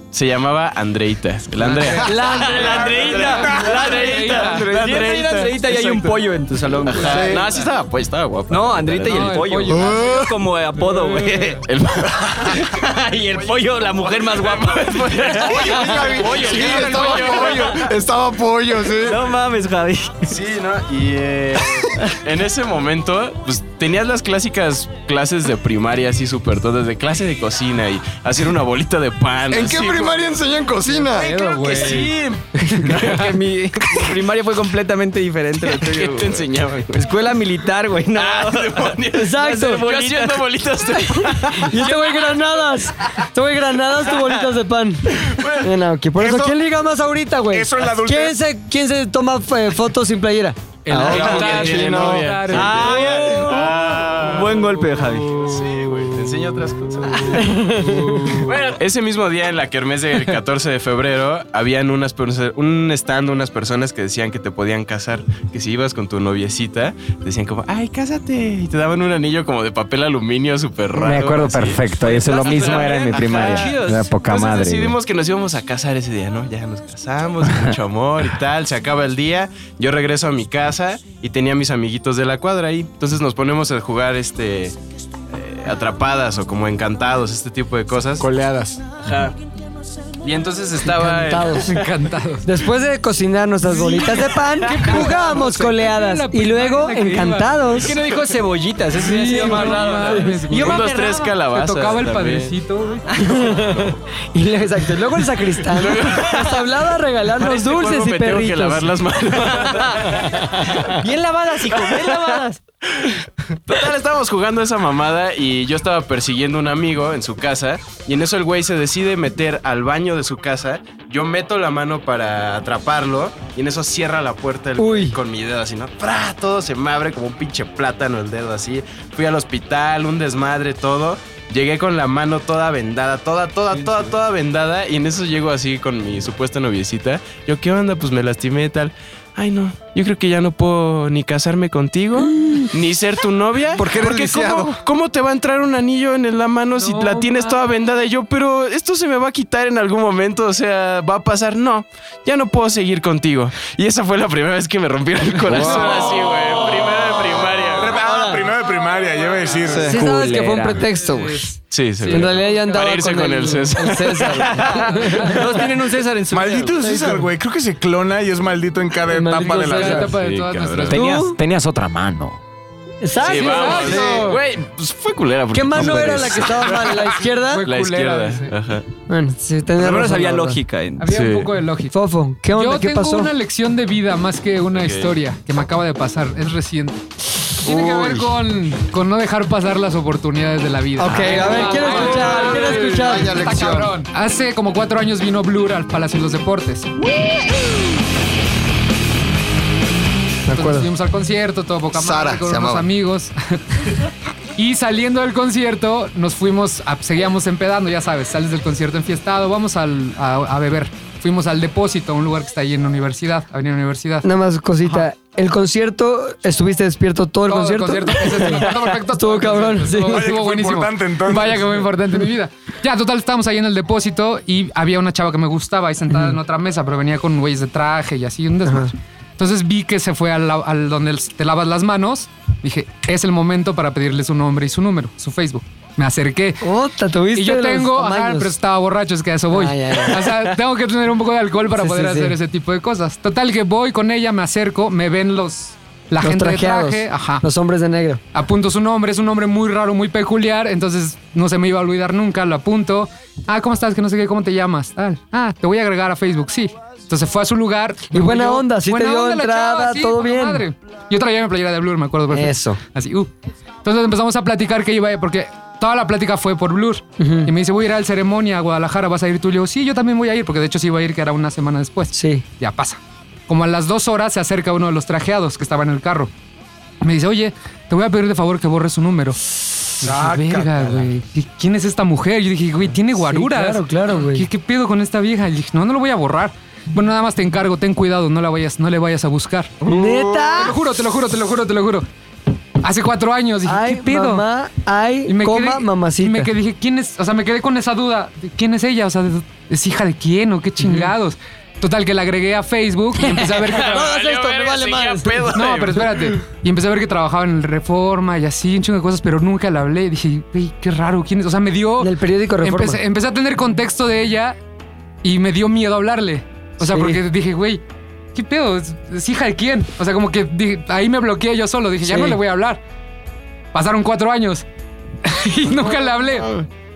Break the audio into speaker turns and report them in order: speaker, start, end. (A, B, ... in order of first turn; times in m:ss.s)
0:00.1-0:06.3 A
0:01.6-0:04.7 B
0:02.0-0:07.4 C
0:06.8-0:09.5 A
0:07.0-0:07.7 B
0:07.1-0:07.4 D
0:08.5-0:11.6 C
0:09.0-0:10.3 B
0:10.8-0:11.6 B
0:11.6-0:17.9 A
0:12.3-0:17.8 C
0:15.5-0:19.1 E
0:16.7-0:17.3 D
0:18.1-0:19.0 D
0:18.9-0:20.3 C
0:20.2-0:30.4 A
0:29.5-0:31.4 D
0:30.8-0:32.2 B
0:31.2-0:33.3 A
0:32.7-0:33.2 B
0:32.7-0:40.5 C
0:35.6-0:37.2 A
0:38.1-0:42.4 A
0:39.1-0:39.8 F
0:41.6-0:50.6 F
0:45.3-0:45.7 A
0:46.2-0:46.6 E
0:47.5-0:48.4 E
0:50.8-0:53.1 B
0:50.9-0:57.5 A
0:51.0-0:51.6 C
0:51.1-0:52.4 D
0:52.4-0:55.5 C
0:55.7-0:56.0 B
0:57.3-0:58.4 F
0:57.6-0:58.5 B
0:58.4-1:24.8 A
1:10.9-1:15.0 G
1:12.4-1:13.8 C
1:25.3-1:28.2 A
1:28.2-1:28.8 E
1:30.2-1:31.6 A
1:30.8-1:31.7 F
1:31.6-1:32.4 B
1:32.4-1:37.9 F
1:33.7-1:38.3 B
1:37.8-1:41.2 C
1:38.9-1:43.3 B
1:39.4-1:42.5 A
1:43.1-1:48.9 F
1:43.5-1:43.9 A
1:45.6-1:46.7 A
1:47.2-1:51.0 A
1:49.4-1:50.2 C
1:50.8-1:52.6 C
1:51.6-1:52.4 A
1:52.9-2:38.0 A
2:04.8-2:05.2 F
2:23.7-2:24.8 D
2:26.8-2:27.6 B
2:35.5-2:35.9 G
2:35.6-2:36.1 B
2:37.7-2:40.0 E
2:38.0-2:38.4 F
2:39.8-2:41.5 F
2:39.8-2:40.8 G
2:41.0-2:42.9 B
2:41.7-2:45.2 A
2:42.1-2:45.6 F
2:44.7-2:45.3 B
2:45.2-2:46.8 C
2:46.3-2:50.1 E
2:46.8-2:47.2 F
2:49.1-2:50.1 F
2:49.5-2:51.2 B
2:50.1-2:51.2 A
2:50.9-2:52.4 G
2:50.9-2:51.3 F
2:53.0-2:54.3 F
2:53.2-2:58.8 A
2:53.3-2:54.4 B
2:55.5-2:57.6 F
2:57.5-2:58.5 B
2:59.1-3:00.6 F
2:59.8-3:01.1 C
3:01.0-3:01.9 B
3:01.1-3:01.5 A
3:01.9-3:03.3 F
3:02.5-3:07.0 B
3:04.7-3:05.2 A
3:07.6-3:16.9 B
3:07.7-3:08.2 D
3:11.0-3:13.4 F
3:12.6-3:13.9 D
3:20.5-3:20.9 F
3:20.5-3:23.8 B
3:21.9-3:22.9 D
3:24.6-3:34.3 B
3:34.2-3:40.3 F
3:37.5-3:56.6 B
3:40.1-3:41.9 E
3:46.1-3:46.4 F
3:48.6-3:48.9 F
3:56.6-3:58.5 F
3:57.3-4:07.4 B
3:59.5-4:00.5 F
4:01.8-4:02.4 F
4:06.2-4:08.2 F
4:08.3-4:23.3 B
4:18.1-4:20.6 F
4:22.3-4:22.8 F
4:23.8-4:36.3 B
4:27.2-4:27.5 F
4:32.1-4:32.4 F
4:37.0-4:49.8 B
4:40.0-4:41.0 F
4:43.2-4:44.5 F
4:49.8-4:50.7 F
4:50.5-4:52.1 B
4:52.8-4:54.4 B
4:53.6-4:56.5 F
4:55.3-5:04.1 B
5:00.8-5:01.1 F
5:03.2-5:05.5 F
5:03.6-5:06.2 A
5:05.5-5:14.6 B
5:12.0-5:13.0 F
5:15.2-5:17.8 B
5:16.8-5:17.2 F
5:18.3-5:22.8 B
5:22.0-5:22.4 F
5:23.7-5:24.6 B
5:25.2-5:26.6 B